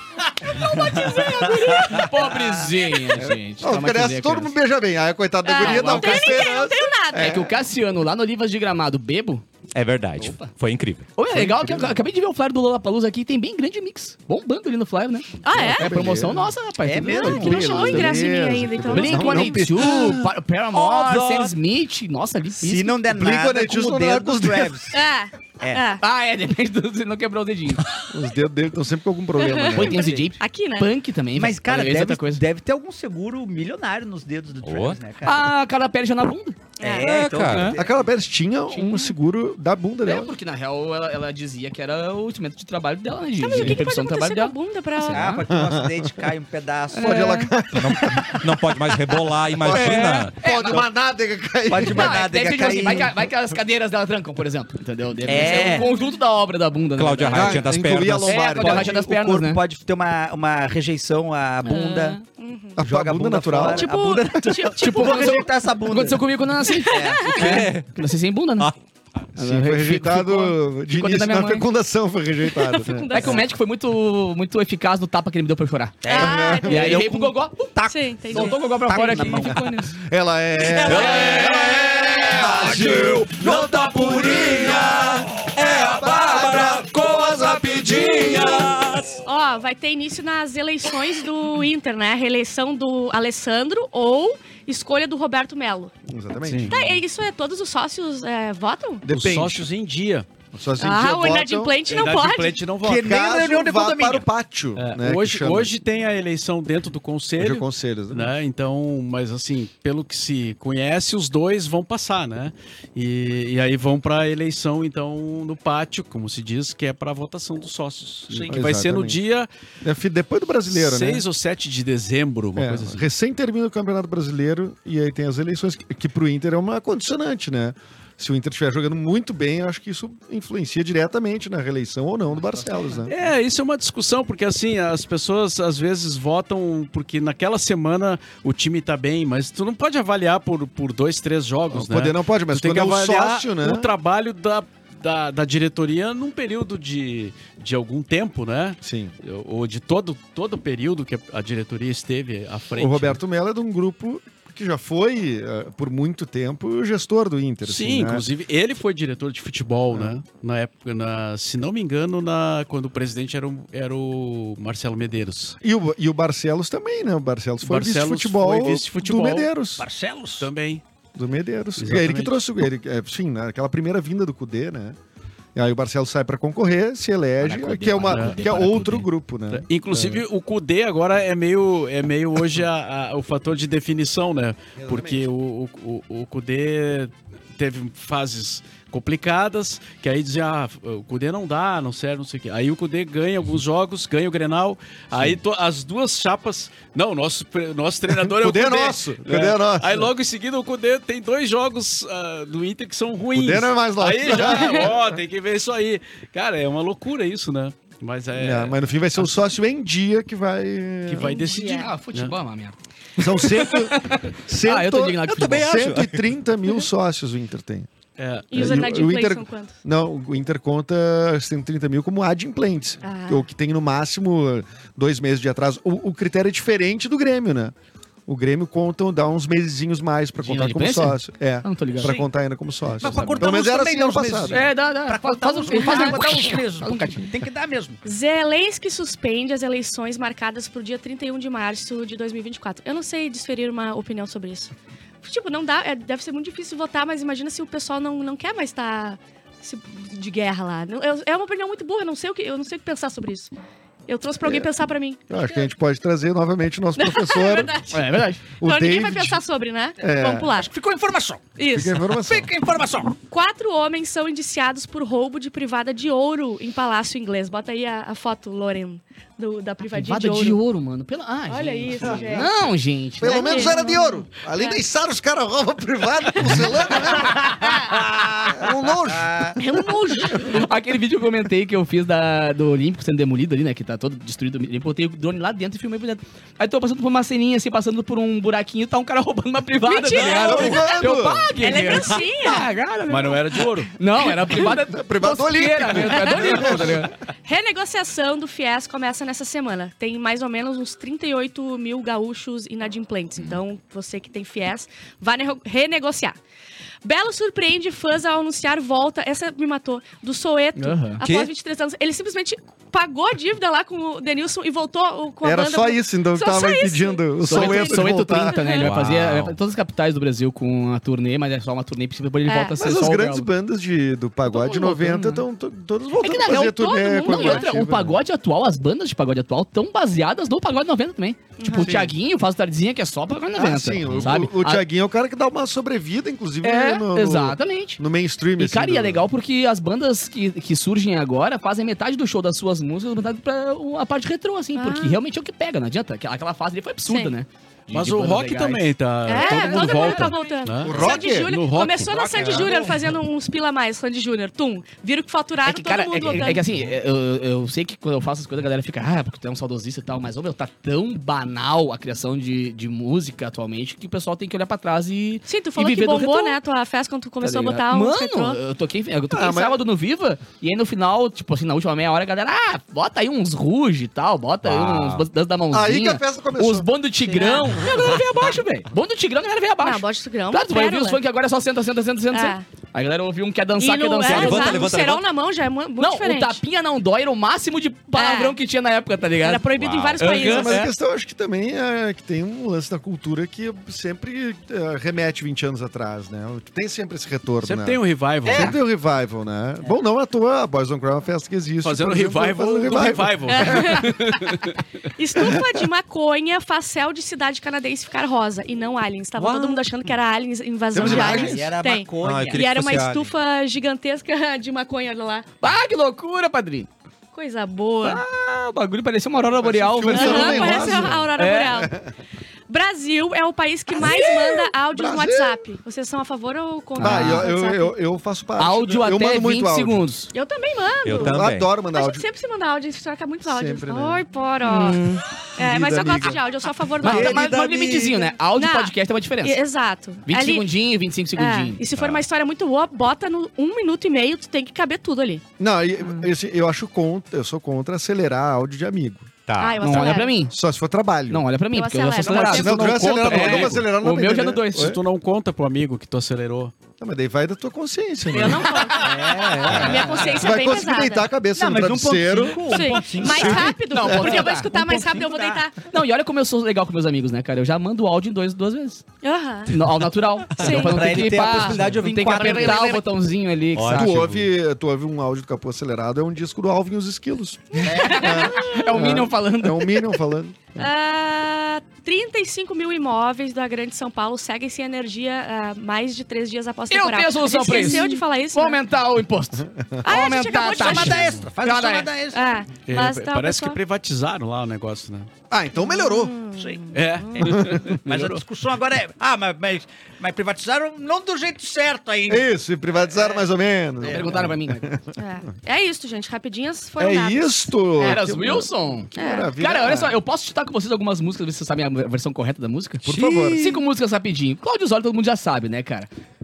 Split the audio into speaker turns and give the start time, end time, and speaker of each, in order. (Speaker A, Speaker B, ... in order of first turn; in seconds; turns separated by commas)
Speaker A: 0.4-4.6, Speaker B: 0.5-2.0, Speaker C: 1.9-2.6, Speaker D: 3.2-7.5, Speaker B: 5.4-7.4, Speaker A: 5.5-6.5, Speaker A: 7.1-9.4, Speaker E: 9.7-11.1, Speaker A: 10.2-10.5, Speaker A: 11.2-18.2, Speaker D: 11.3-12.0, Speaker B: 15.4-15.9, Speaker D: 15.5-16.5, Speaker C: 16.8-17.9, Speaker B: 17.1-20.1, Speaker D: 17.2-20.2, Speaker A: 18.9-23.0, Speaker C: 20.7-21.5, Speaker C: 22.6-24.9, Speaker D: 23.1-24.9, Speaker B: 24.9-26.0, Speaker A: 26.0-27.8, Speaker D: 28.1-30.1, Speaker B: 29.4-30.9, Speaker A: 29.7-32.4, Speaker C: 31.3-35.5, Speaker E: 34.6-35.0, Speaker A: 35.2-36.6, Speaker C: 36.8-38.0, Speaker B: 36.8-37.1, Speaker E: 37.0-37.7, Speaker A: 37.5-37.8, Speaker D: 37.7-40.3, Speaker A: 38.8-39.0, Speaker A: 40.0-45.4, Speaker B: 43.4-45.3, Speaker C: 45.1-47.4, Speaker D: 45.5-46.3, Speaker D: 47.0-48.7, Speaker A: 47.0-47.5, Speaker E: 47.7-50.3, Speaker D: 49.5-52.2, Speaker A: 49.6-50.9, Speaker C: 51.6-53.1, Speaker A: 51.7-57.7, Speaker C: 55.2-55.9, Speaker B: 55.3-56.1, Speaker E: 57.0-58.5, Speaker D: 57.3-58.9, Speaker A: 58.2-59.6, Speaker C: 58.4-62.2, Speaker A: 61.6-62.2, Speaker B: 62.2-62.8, Speaker D: 62.8-63.9, Speaker C: 62.8-66.3, Speaker B: 63.6-65.5, Speaker A: 64.8-68.7, Speaker B: 66.7-67.5, Speaker C: 66.8-67.6, Speaker E: 67.3-67.9, Speaker D: 69.3-73.4, Speaker A: 69.4-71.7, Speaker B: 72.5-73.5, Speaker A: 73.1-76.1, Speaker C: 76.0-79.7, Speaker B: 76.1-76.9, Speaker D: 76.1-77.0, Speaker A: 76.6-77.7, Speaker B: 77.8-79.9, Speaker A: 78.3-79.9, Speaker D: 80.0-88.6, Speaker E: 80.7-89.2, Speaker C: 80.8-81.5, Speaker B: 89.2-95.9, Speaker D: 96.1-96.9, Speaker F: 96.4-96.8, Speaker B: 96.7-99.1, Speaker D: 99.0-99.7, Speaker F: 99.1-100.3, Speaker D: 100.5-101.8, Speaker B: 100.8-102.7, Speaker F: 101.9-103.1, Speaker C: 102.8-104.2, Speaker D: 102.9-105.7, Speaker F: 104.8-119.5, Speaker D: 107.4-108.3, Speaker D: 118.5-119.2, Speaker D: 119.8-121.2, Speaker F: 120.7-123.0, Speaker D: 122.5-133.1, Speaker F: 133.1-153.2, Speaker D: 141.7-143.9, Speaker D: 148.8-149.1, Speaker D: 152.7-158.3, Speaker F: 157.6-165.6, Speaker D: 165.6-169.8, Speaker F: 167.6-169.5, Speaker C: 169.8-170.5, Speaker F: 170.4-170.8, Speaker D: 171.1-175.0, Speaker F: 171.8-172.3, Speaker D: 175.5-180.2, Speaker A: 177.4-179.1, Speaker F: 178.1-178.5, Speaker F: 179.5-209.4, Speaker D: 184.8-185.3, Speaker D: 195.1-195.4, Speaker D: 198.1-200.1, Speaker D: 203.3-205.2, Speaker D: 208.3-211.4, Speaker F: 211.1-212.3, Speaker B: 211.2-211.9, Speaker A: 211.5-215.7, Speaker D: 213.2-217.9, Speaker E: 215.2-216.2, Speaker F: 218.2-218.8, Speaker B: 218.5-219.7, Speaker D: 218.5-227.7, Speaker B: 223.0-223.5, Speaker D: 228.3-234.6, Speaker A: 230.4-232.2, Speaker C: 233.0-238.0, Speaker A: 233.0-233.5, Speaker A: 234.5-237.3, Speaker B: 235.7-236.3, Speaker B: 238.0-244.7, Speaker B: 245.2-253.5, Speaker B: 254.1-255.4, Speaker D: 254.4-254.7, Speaker D: 255.3-257.9, Speaker B: 257.0-258.0, Speaker A: 257.9-258.4, Speaker D: 258.6-259.4, Speaker B: 258.6-260.7, Speaker D: 260.0-260.5, Speaker C: 260.6-261.5, Speaker B: 261.6-262.0, Speaker D: 261.7-262.5, Speaker C: 262.1-263.1, Speaker B: 263.3-270.6, Speaker A: 269.9-273.8, Speaker B: 271.5-272.5, Speaker D: 273.2-277.7, Speaker B: 273.2-274.8, Speaker C: 277.3-279.6, Speaker D: 278.5-279.6, Speaker B: 279.6-280.6, Speaker A: 280.2-297.1, Speaker B: 289.8-291.0, Speaker D: 290.2-291.5, Speaker B: 291.6-292.7, Speaker F: 293.1-293.9, Speaker D: 294.4-297.1, Speaker B: 296.1-306.4, Speaker B: 307.0-318.9, Speaker A: 310.8-311.2, Speaker E: 311.2-311.5, Speaker D: 315.4-318.6, Speaker A: 317.4-323.5, Speaker E: 318.8-319.5, Speaker B: 322.4-322.8, Speaker D: 322.8-328.2, Speaker A: 324.5-325.4, Speaker A: 326.2-334.8, Speaker B: 326.4-327.7, Speaker B: 331.6-332.0, Speaker D: 331.8-332.1, Speaker D: 333.5-339.3, Speaker A: 336.6-338.0, Speaker A: 338.6-350.3, Speaker B: 344.7-345.2, Speaker B: 347.1-347.3, Speaker F: 347.9-352.3, Speaker B: 349.2-356.6, Speaker D: 350.8-351.5, Speaker C: 352.0-353.0, Speaker A: 355.6-366.6, Speaker B: 365.4-368.6, Speaker A: 367.4-384.9, Speaker D: 369.3-369.8, Speaker E: 374.6-375.2, Speaker D: 375.7-376.9, Speaker B: 377.3-378.1, Speaker B: 379.8-381.2, Speaker B: 382.3-382.6, Speaker B: 383.8-386.6, Speaker E: 384.2-385.2, Speaker A: 386.0-389.6, Speaker B: 388.1-388.6, Speaker B: 389.4-390.9, Speaker E: 389.8-390.3, Speaker A: 390.2-390.8, Speaker D: 390.3-404.0, Speaker F: 390.4-390.8, Speaker F: 397.6-398.8, Speaker C: 398.4-398.8, Speaker F: 401.8-404.8, Speaker B: 403.5-404.4, Speaker B: 405.2-415.4, Speaker E: 409.4-409.7, Speaker D: 410.9-412.6, Speaker C: 410.9-412.7, Speaker E: 412.2-413.2, Speaker A: 415.6-416.9, Speaker B: 417.3-418.2, Speaker A: 418.0-421.8, Speaker D: 419.6-422.1, Speaker B: 420.1-421.9, Speaker B: 422.7-427.9, Speaker D: 424.0-425.6, Speaker A: 427.0-427.5, Speaker D: 427.0-430.1, Speaker A: 428.6-430.3, Speaker B: 430.3-437.6, Speaker E: 431.0-431.7, Speaker D: 431.1-432.2, Speaker D: 433.4-434.2, Speaker A: 434.6-435.2, Speaker D: 435.6-436.4, Speaker A: 437.0-439.6, Speaker E: 437.1-438.1, Speaker B: 438.4-440.7, Speaker A: 440.2-441.8, Speaker B: 441.4-445.4, Speaker E: 441.9-442.2, Speaker D: 445.6-449.3, Speaker E: 449.5-449.9, Speaker B: 449.6-450.5, Speaker A: 449.8-450.5, Speaker D: 450.5-451.4, Speaker A: 451.3-454.9, Speaker B: 451.7-453.0, Speaker F: 452.2-453.8, Speaker D: 452.5-455.0, Speaker F: 454.7-456.7, Speaker D: 457.0-459.0, Speaker B: 458.3-461.3, Speaker A: 458.3-459.3, Speaker C: 459.0-460.4, Speaker D: 459.6-464.2, Speaker C: 461.5-465.6, Speaker B: 462.6-465.8, Speaker A: 463.9-464.7, Speaker A: 465.8-469.0, Speaker B: 469.2-469.8, Speaker A: 469.7-474.1, Speaker B: 470.6-471.8, Speaker C: 470.6-473.0, Speaker B: 472.3-472.9, Speaker E: 473.7-474.5, Speaker D: 473.9-480.9, Speaker A: 477.8-480.1, Speaker C: 477.9-478.2, Speaker B: 477.9-478.9, Speaker B: 480.8-488.8, Speaker A: 486.9-492.1, Speaker D: 489.6-490.1, Speaker B: 490.0-491.4, Speaker C: 490.6-492.5, Speaker F: 491.1-491.4, Speaker B: 492.3-493.8, Speaker F: 492.8-495.3, Speaker D: 495.5-496.4, Speaker B: 495.8-497.5, Speaker C: 496.6-502.5, Speaker F: 496.9-498.4, Speaker D: 497.4-498.0, Speaker D: 502.3-505.1, Speaker C: 503.0-503.5, Speaker C: 504.0-504.4, Speaker A: 504.0-504.9, Speaker B: 505.1-507.7, Speaker D: 507.0-510.2, Speaker A: 508.0-516.1, Speaker B: 509.1-509.5, Speaker D: 513.0-513.8